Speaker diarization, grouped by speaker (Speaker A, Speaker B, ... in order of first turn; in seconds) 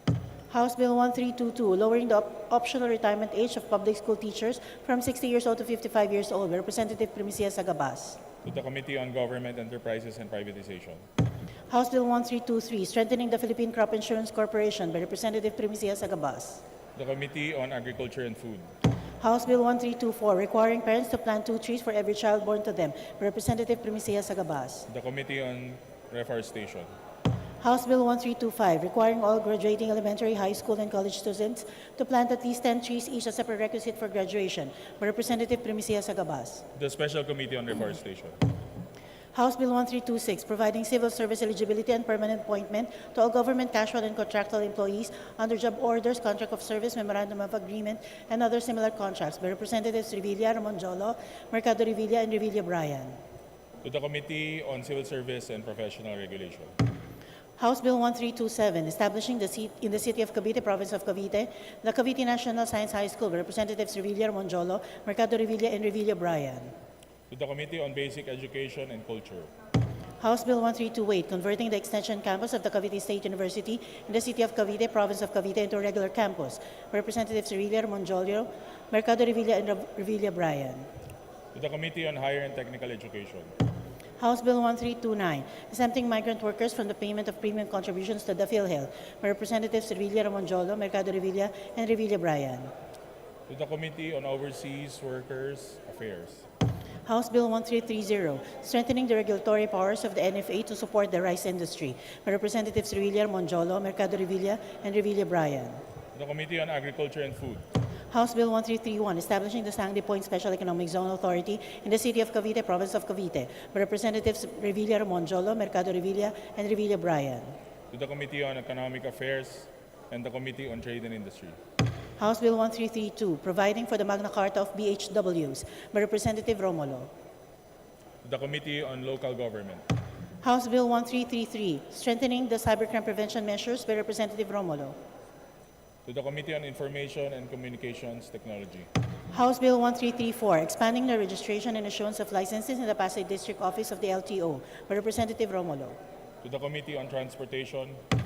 Speaker A: 0.5-8.2, 11.7-16.6, 19.2-24.9, 27.6-36.6, 39.3-53.2, 57.6-66.7, 70.2-80.9, 84.2-92.7, 97.0-105.8, 108.1-117.5, 122.2-127.1, 130.4-134.9, 139.3-146.0
Speaker B: 8.4-11.0, 16.9-18.7, 24.9-26.9, 36.7-38.4, 53.8-56.7, 67.3-69.5, 81.5-83.5, 93.5-96.4, 106.1-107.6, 117.9-121.6, 128.2-129.8, 136.0-138.9, 146.4-148.0